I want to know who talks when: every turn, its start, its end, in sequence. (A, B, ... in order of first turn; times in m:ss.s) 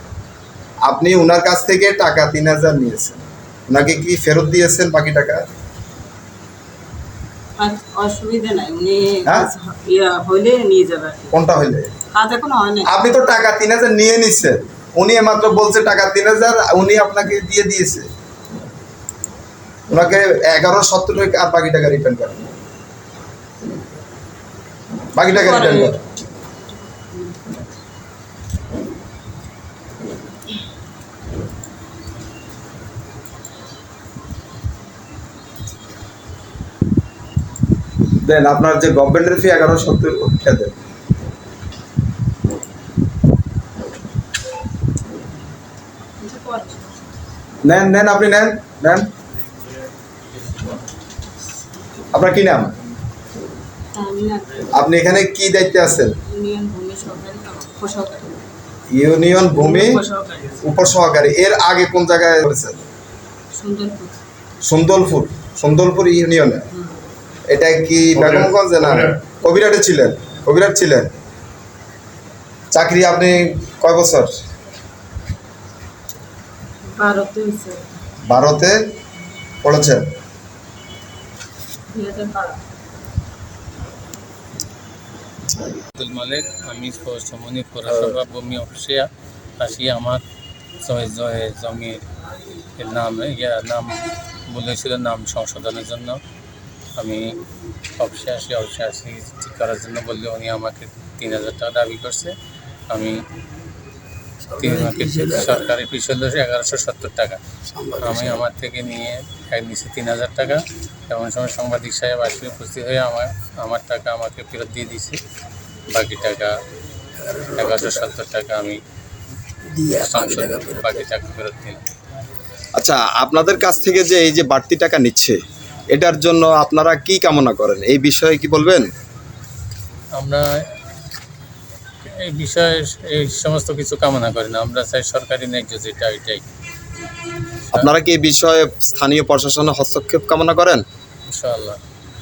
0:00.8-0:05.4 A
0:07.6-0:11.3 B
0:11.3-0:11.9 A
0:12.1-0:12.8 B
0:12.8-0:18.1 A
0:19.9-0:22.4 A
0:25.2-0:26.0 A
0:25.3-0:25.9 B
0:26.9-0:27.4 B
0:38.2-0:40.8 A
0:46.2-0:46.8 B
0:47.6-0:49.1 A
0:52.1-0:52.7 A
0:53.9-0:54.6 B
0:54.7-0:56.1 A
0:56.2-0:58.4 B
0:58.9-1:00.0 A
0:59.6-1:00.6 B
1:00.6-1:02.8 A
1:03.5-1:04.1 B
1:04.6-1:06.7 A
1:07.5-1:11.2 A
1:12.7-1:14.3 A
1:16.9-1:17.8 B
1:18.3-1:18.8 A
1:19.6-1:20.1 A
1:21.9-1:22.6 B
1:26.0-1:30.2 C
1:30.8-1:32.0 C
1:32.6-1:36.2 C
1:37.0-1:37.4 C
1:38.0-1:42.4 C
1:42.9-1:43.2 C
1:44.5-1:55.2 C
1:55.9-1:56.5 C
1:57.5-1:58.8 C
1:59.7-2:01.9 C
2:02.8-2:05.4 A
2:05.9-2:08.9 A
2:10.2-2:10.5 C
2:12.0-2:16.4 C
2:17.7-2:20.8 A
2:21.3-2:21.8 C